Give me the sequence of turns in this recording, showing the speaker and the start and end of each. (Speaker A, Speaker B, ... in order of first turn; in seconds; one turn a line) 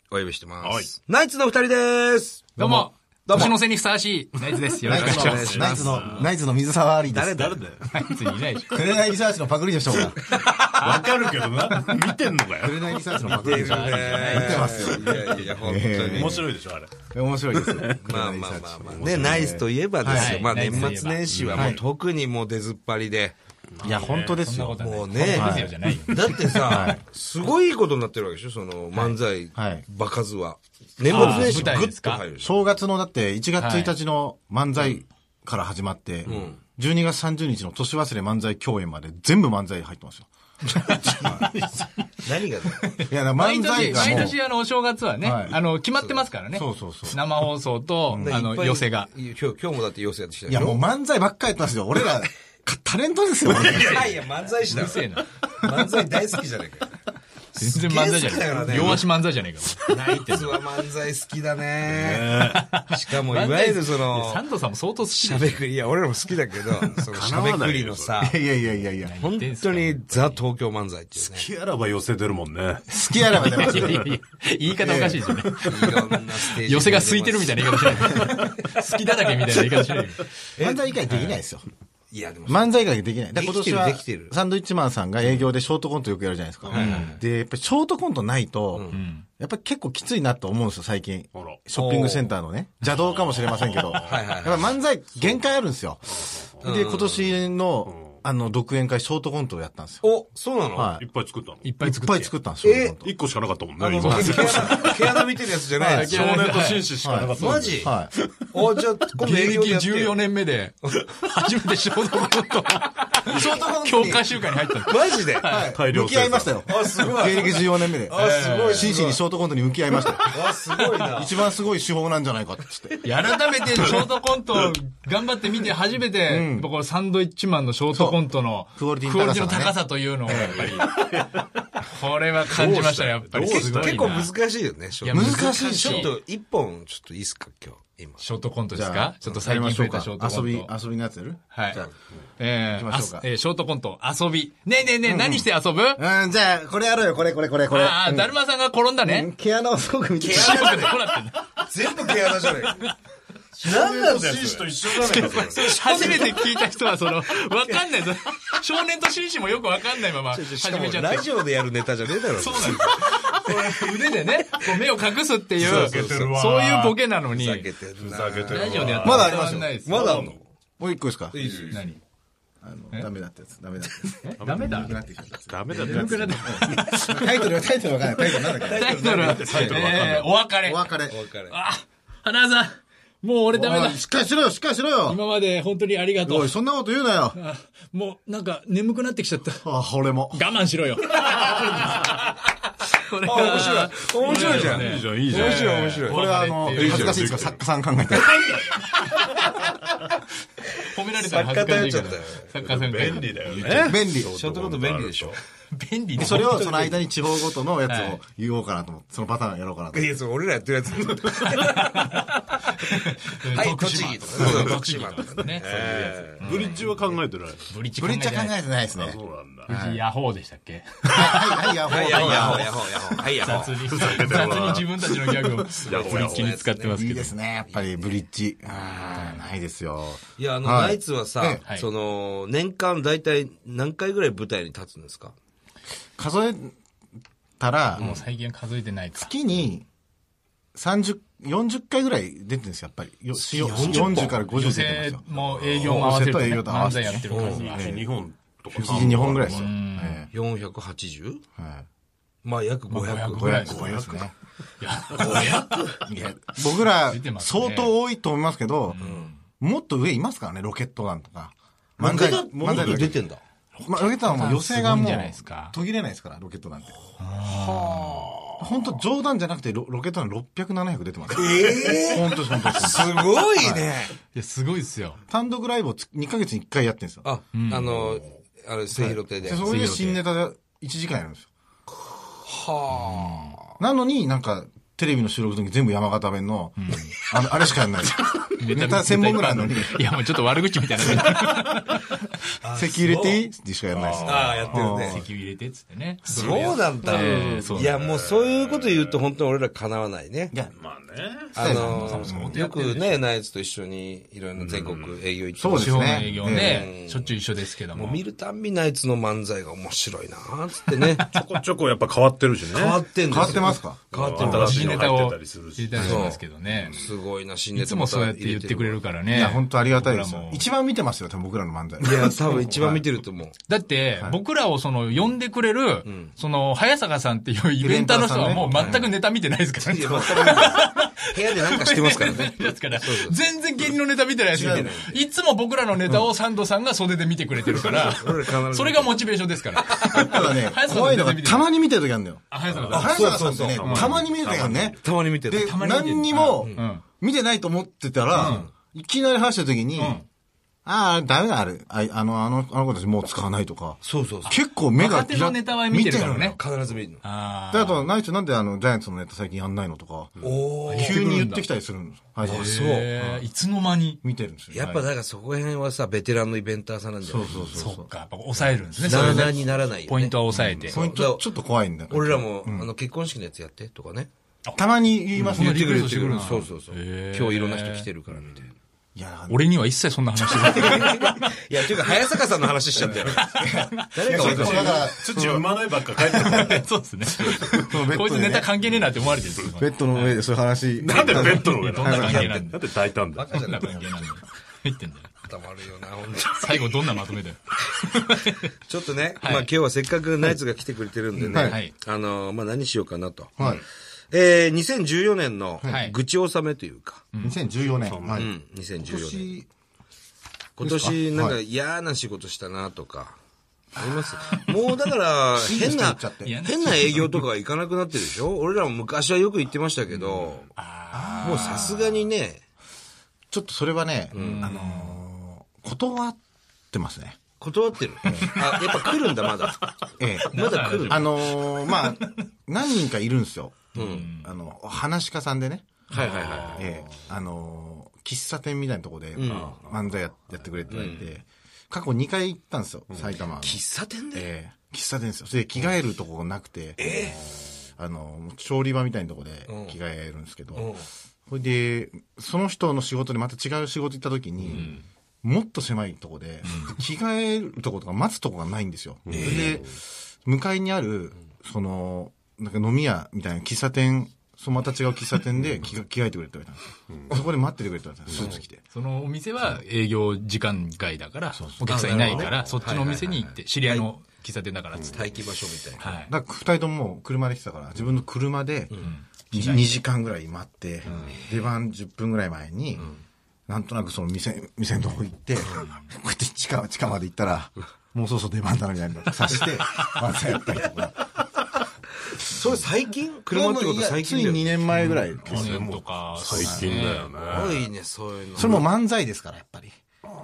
Speaker A: 0.1-2.5
Speaker B: 0.6-0.9
Speaker C: 2.6-3.5
Speaker D: 2.6-6.0
Speaker A: 3.3-3.5
Speaker C: 4.8-7.5
Speaker A: 4.9-6.3
Speaker B: 5.1-6.3
Speaker A: 7.1-7.6
Speaker B: 7.3-7.9
Speaker D: 7.9-8.9
Speaker C: 8.7-10.2
Speaker A: 10.2-10.8
Speaker B: 10.7-17.0
Speaker D: 10.8-11.2
Speaker C: 12.6-16.5
Speaker A: 13.4-16.5
Speaker D: 13.7-14.8
Speaker C: 17.1-21.0
Speaker B: 17.5-18.0
Speaker A: 18.0-23.4
Speaker D: 20.1-21.5
Speaker B: 21.3-21.8
Speaker C: 21.5-21.8
Speaker B: 23.8-24.4
Speaker C: 23.8-25.7
Speaker D: 23.9-26.4
Speaker A: 24.8-32.7
Speaker C: 26.7-27.0
Speaker C: 29.6-29.9
Speaker D: 31.1-32.2
Speaker C: 31.1-31.8
Speaker C: 32.4-40.3
Speaker D: 33.6-33.9
Speaker A: 34.8-35.0
Speaker A: 36.3-36.6
Speaker D: 40.8-41.1
Speaker C: 41.1-41.5
Speaker B: 41.2-41.8
Speaker A: 42.2-43.0
Speaker C: 43.1-44.4
Speaker D: 43.4-49.1
Speaker C: 45.2-45.6
Speaker A: 46.0-46.3
Speaker C: 46.5-47.2
Speaker C: 48.1-48.4
Speaker A: 48.2-50.8
Speaker C: 50.5-54.2
Speaker A: 53.5-57.0
Speaker D: 54.7-55.3
Speaker A: 57.5-59.1
Speaker D: 57.6-60.6
Speaker A: 59.9-64.4
Speaker B: 61.9-62.7
Speaker D: 62.5-65.6
Speaker A: 65.1-68.3
Speaker B: 67.1-68.2
Speaker C: 68.2-69.2
Speaker D: 69.0-70.4
Speaker A: 69.2-71.5
Speaker B: 71.2-74.1
Speaker C: 72.9-74.1
Speaker D: 73.3-80.3
Speaker C: 74.7-75.3
Speaker A: 75.7-78.4
Speaker A: 80.6-80.9
Speaker C: 80.6-81.7
Speaker D: 81.1-81.4
Speaker A: 82.1-82.8
Speaker C: 82.5-100.1
Speaker A: 83.3-84.3
Speaker A: 85.2-85.5
Speaker A: 86.7-87.2
Speaker D: 86.8-87.0
Speaker A: 88.7-89.0
Speaker D: 88.9-89.3
Speaker B: 91.3-91.6
Speaker A: 91.7-92.3
Speaker B: 92.9-94.3
Speaker A: 94.0-94.8
Speaker B: 96.1-96.5
Speaker A: 96.6-97.3
Speaker B: 97.9-98.2
Speaker A: 100.0-101.0
Speaker C: 100.7-101.0
Speaker B: 101.0-101.7
Speaker D: 101.6-102.3
Speaker C: 101.8-103.1
Speaker A: 102.6-103.0
Speaker B: 103.0-104.9
Speaker A: 103.8-106.2
Speaker D: 104.0-105.0
Speaker C: 104.1-104.8
Speaker C: 105.8-106.1
Speaker D: 105.8-107.0
Speaker B: 106.0-108.3
Speaker C: 107.0-108.1
Speaker A: 107.3-107.9
Speaker A: 108.5-110.2
Speaker D: 109.2-115.8
Speaker C: 113.3-114.3
Speaker A: 114.9-115.5
Speaker C: 115.4-120.4
Speaker B: 115.7-117.2
Speaker A: 116.7-119.2
Speaker D: 118.1-118.9
Speaker A: 120.3-121.4
Speaker C: 121.0-123.1
Speaker D: 123.0-134.3
Speaker C: 126.3-126.7
Speaker C: 127.9-130.9
Speaker B: 130.6-131.6
Speaker B: 132.4-134.2
Speaker A: 133.5-138.2
Speaker D: 135.0-136.1
Speaker C: 135.1-136.1
Speaker D: 138.2-140.7
Speaker C: 138.7-141.9
Speaker D: 141.5-141.8
Speaker D: 142.4-146.0
Speaker C: 142.7-143.3
Speaker C: 145.0-148.4
Speaker D: 147.7-149.3
Speaker C: 149.0-150.9
Speaker A: 150.2-151.0
Speaker D: 150.3-151.5
Speaker A: 151.6-152.8
Speaker C: 153.6-154.7
Speaker A: 153.6-156.4
Speaker B: 153.7-156.3
Speaker D: 154.9-161.3
Speaker A: 160.3-163.2
Speaker D: 162.3-167.7
Speaker B: 165.6-167.0
Speaker A: 165.6-166.3
Speaker A: 167.3-169.2
Speaker B: 168.0-169.4
Speaker D: 168.5-170.3
Speaker C: 169.0-170.3
Speaker A: 169.8-170.4
Speaker C: 170.8-171.4
Speaker A: 171.3-171.9
Speaker D: 171.7-172.0
Speaker C: 172.6-178.9
Speaker D: 173.9-175.0
Speaker B: 174.4-176.7
Speaker D: 175.7-177.5
Speaker D: 178.4-184.2
Speaker A: 178.6-179.8
Speaker B: 179.1-180.4
Speaker C: 180.6-181.2
Speaker A: 181.1-181.6
Speaker C: 183.5-185.2
Speaker D: 185.1-186.6
Speaker C: 186.2-187.4
Speaker D: 187.3-189.7
Speaker C: 189.6-190.5
Speaker D: 190.3-192.1
Speaker D: 193.0-197.4
Speaker A: 193.2-196.2
Speaker B: 194.2-196.0
Speaker C: 196.1-198.5
Speaker B: 196.7-198.8
Speaker D: 200.9-204.0
Speaker A: 201.1-202.5
Speaker B: 202.6-205.4
Speaker A: 203.7-205.4
Speaker C: 203.8-204.3
Speaker D: 205.7-207.0
Speaker C: 206.2-210.2
Speaker A: 206.2-207.0
Speaker D: 207.9-208.2
Speaker A: 209.9-212.2
Speaker D: 211.4-217.0
Speaker A: 213.5-217.0
Speaker B: 214.4-214.7
Speaker B: 215.7-217.7
Speaker D: 217.7-218.6
Speaker C: 218.0-220.0
Speaker B: 218.9-219.7
Speaker D: 219.7-222.7
Speaker C: 221.1-223.2
Speaker A: 221.9-224.5
Speaker D: 223.4-227.3
Speaker B: 223.5-226.6
Speaker A: 225.8-227.0
Speaker C: 226.9-231.6
Speaker A: 227.6-228.2
Speaker D: 229.0-229.4
Speaker A: 230.4-235.3
Speaker C: 236.2-236.7
Speaker C: 237.6-238.2
Speaker D: 238.0-239.3
Speaker C: 239.2-239.9
Speaker C: 240.8-245.2
Speaker A: 243.3-244.5
Speaker D: 243.9-247.9
Speaker B: 245.3-245.9
Speaker A: 245.8-246.1
Speaker C: 245.8-248.1
Speaker A: 247.3-247.7
Speaker B: 247.3-249.8
Speaker C: 248.7-250.3
Speaker D: 249.4-250.3
Speaker A: 250.3-251.4
Speaker C: 251.6-251.9
Speaker A: 252.4-253.8
Speaker D: 252.9-254.0
Speaker C: 253.3-254.3
Speaker B: 253.7-254.3
Speaker D: 254.8-255.8
Speaker A: 255.2-256.0
Speaker C: 256.1-259.0
Speaker D: 256.8-257.9
Speaker D: 258.9-259.4
Speaker A: 259.0-259.3
Speaker C: 259.6-263.2
Speaker A: 262.0-263.4
Speaker D: 262.7-263.0
Speaker D: 263.8-265.8
Speaker C: 263.8-267.0
Speaker D: 267.2-268.3
Speaker A: 267.4-268.3
Speaker C: 268.6-273.9
Speaker A: 271.3-274.1
Speaker D: 274.3-275.2
Speaker C: 275.3-277.3
Speaker A: 277.2-279.8
Speaker D: 277.5-277.9
Speaker C: 278.9-281.5
Speaker D: 279.6-280.2
Speaker A: 282.4-283.6
Speaker D: 283.1-283.4
Speaker C: 283.8-290.0
Speaker D: 286.8-287.1
Speaker D: 288.6-292.2
Speaker A: 292.6-293.4
Speaker C: 292.7-295.2
Speaker B: 293.9-295.1
Speaker A: 294.2-295.2
Speaker D: 295.0-298.0
Speaker A: 296.3-300.6
Speaker B: 296.3-296.7
Speaker B: 297.2-299.2
Speaker B: 300.8-301.7
Speaker A: 301.6-307.4
Speaker C: 301.6-302.6
Speaker D: 301.6-303.2
Speaker B: 304.6-305.2
Speaker C: 305.6-306.9
Speaker D: 305.7-308.2
Speaker A: 307.9-311.3
Speaker B: 311.2-317.0
Speaker A: 312.7-315.1
Speaker C: 313.3-314.1
Speaker D: 314.4-317.0
Speaker A: 316.0-319.0
Speaker D: 317.8-320.7
Speaker C: 319.3-323.1
Speaker A: 322.0-323.6
Speaker D: 323.7-341.7
Speaker A: 326.0-326.4
Speaker C: 327.8-329.0
Speaker A: 328.7-329.1
Speaker A: 329.8-333.4
Speaker A: 334.5-335.2
Speaker C: 334.6-334.9
Speaker A: 337.6-339.2
Speaker A: 339.9-340.5
Speaker C: 340.1-350.2
Speaker D: 342.5-343.4
Speaker B: 342.7-345.1
Speaker A: 342.9-344.1
Speaker A: 345.0-345.8
Speaker D: 345.6-347.0
Speaker D: 348.3-348.7
Speaker D: 350.0-350.2
Speaker C: 350.9-356.6
Speaker A: 354.0-354.6
Speaker D: 354.5-356.6
Speaker A: 356.6-357.2
Speaker D: 357.2-358.1
Speaker C: 357.7-360.4
Speaker A: 360.4-361.2
Speaker D: 360.9-361.7
Speaker C: 360.9-363.5
Speaker D: 362.4-364.2
Speaker A: 362.5-363.1
Speaker C: 364.2-365.1
Speaker A: 364.7-367.9
Speaker C: 367.2-368.1
Speaker D: 367.8-371.0
Speaker A: 369.0-371.5
Speaker C: 369.1-369.5
Speaker C: 370.8-372.9
Speaker A: 372.1-374.3
Speaker C: 374.8-376.6
Speaker D: 375.4-378.1
Speaker A: 375.5-378.7
Speaker C: 379.1-379.7
Speaker D: 379.5-381.5
Speaker A: 380.5-383.6
Speaker C: 380.6-381.1
Speaker D: 383.2-385.0
Speaker C: 383.5-385.7
Speaker A: 384.1-385.1
Speaker B: 384.4-387.7
Speaker C: 386.2-386.6
Speaker D: 386.3-390.4
Speaker C: 387.7-388.8
Speaker C: 389.7-392.6
Speaker B: 391.0-393.5
Speaker A: 391.1-392.7
Speaker D: 391.6-395.3
Speaker A: 393.3-394.3
Speaker A: 395.4-397.2
Speaker D: 396.5-398.7
Speaker A: 398.9-403.6
Speaker D: 399.4-399.7
Speaker C: 401.5-401.8
Speaker D: 401.5-401.9
Speaker C: 403.6-403.8
Speaker A: 404.3-407.2
Speaker D: 405.9-406.2
Speaker D: 407.3-407.6
Speaker C: 407.4-409.7
Speaker B: 408.0-408.5
Speaker A: 408.4-409.6
Speaker A: 410.8-413.4
Speaker C: 410.8-411.6
Speaker A: 414.0-420.7
Speaker D: 414.0-414.9
Speaker C: 415.6-416.6
Speaker D: 416.4-417.4
Speaker D: 420.8-422.2
Speaker C: 421.1-421.9
Speaker A: 421.4-422.6
Speaker C: 423.5-426.4
Speaker A: 424.3-424.7
Speaker D: 424.4-425.2
Speaker C: 426.9-427.4
Speaker A: 427.6-429.9
Speaker C: 428.2-428.5
Speaker C: 430.2-436.0
Speaker A: 430.4-431.5
Speaker D: 430.5-432.4
Speaker A: 433.9-434.3
Speaker D: 433.9-434.5
Speaker A: 436.1-436.9
Speaker D: 436.1-436.4
Speaker B: 436.1-437.2
Speaker C: 436.7-443.8
Speaker A: 439.4-439.8
Speaker B: 439.5-440.0
Speaker A: 440.9-441.3
Speaker B: 443.1-443.4
Speaker A: 443.6-444.5
Speaker C: 444.4-447.3
Speaker A: 447.0-447.4
Speaker B: 447.1-447.6
Speaker C: 448.0-450.9
Speaker A: 449.7-450.0
Speaker A: 450.8-451.1
Speaker C: 451.5-468.8
Speaker B: 459.3-459.8
Speaker A: 459.3-459.8
Speaker D: 468.9-475.3
Speaker C: 471.5-472.4
Speaker A: 471.9-474.1
Speaker B: 472.4-472.9
Speaker A: 475.1-476.1
Speaker D: 476.0-476.3
Speaker C: 476.3-483.1
Speaker A: 478.9-480.0
Speaker D: 479.0-479.9
Speaker A: 481.3-481.6
Speaker C: 483.7-491.3
Speaker D: 485.8-486.1
Speaker A: 492.4-494.7
Speaker C: 493.5-496.0
Speaker D: 494.9-497.3
Speaker B: 495.4-497.9
Speaker C: 496.5-497.0
Speaker A: 497.4-498.9
Speaker C: 498.6-499.9